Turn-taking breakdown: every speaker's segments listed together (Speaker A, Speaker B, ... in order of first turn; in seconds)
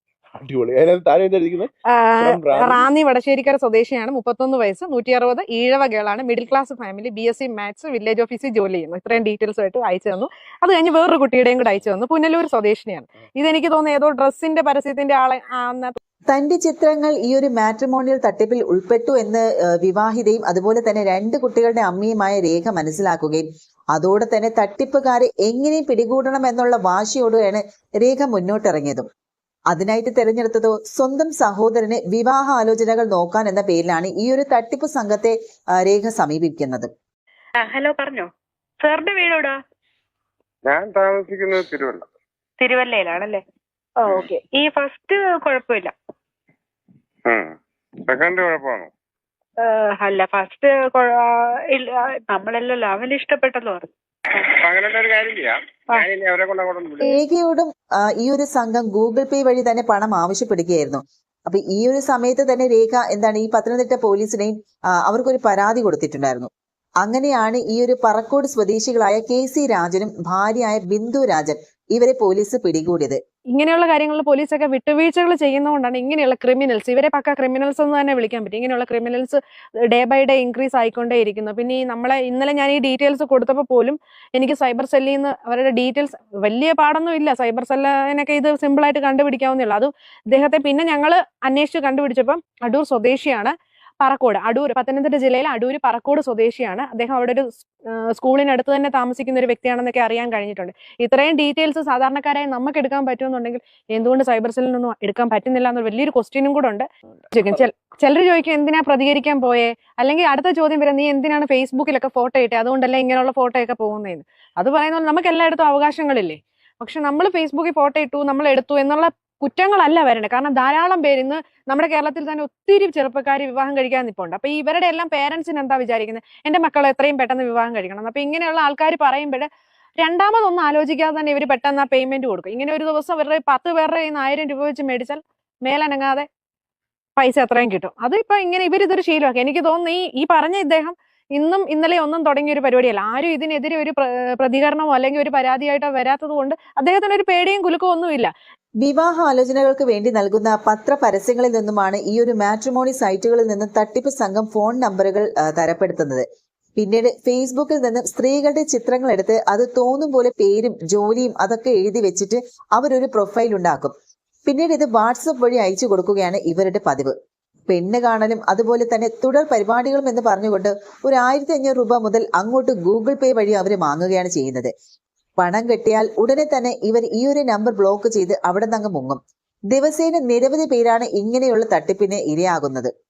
Speaker A: 0.4-2.9
Speaker B: 1.9-16.0, 73.5-129.5, 130.0-136.3, 137.2-148.3
Speaker C: 16.3-29.1, 29.7-36.9, 57.0-66.5, 67.0-73.2, 148.8-156.2, 156.8-163.9, 164.5-167.1, 167.7-174.7, 175.4-179.2, 179.7-182.9
Speaker D: 37.6-38.3, 38.8-39.5, 42.6-43.4, 44.0-45.9, 49.6-54.4
Speaker E: 40.7-42.1, 44.0-44.3, 48.1-48.9, 54.5-57.1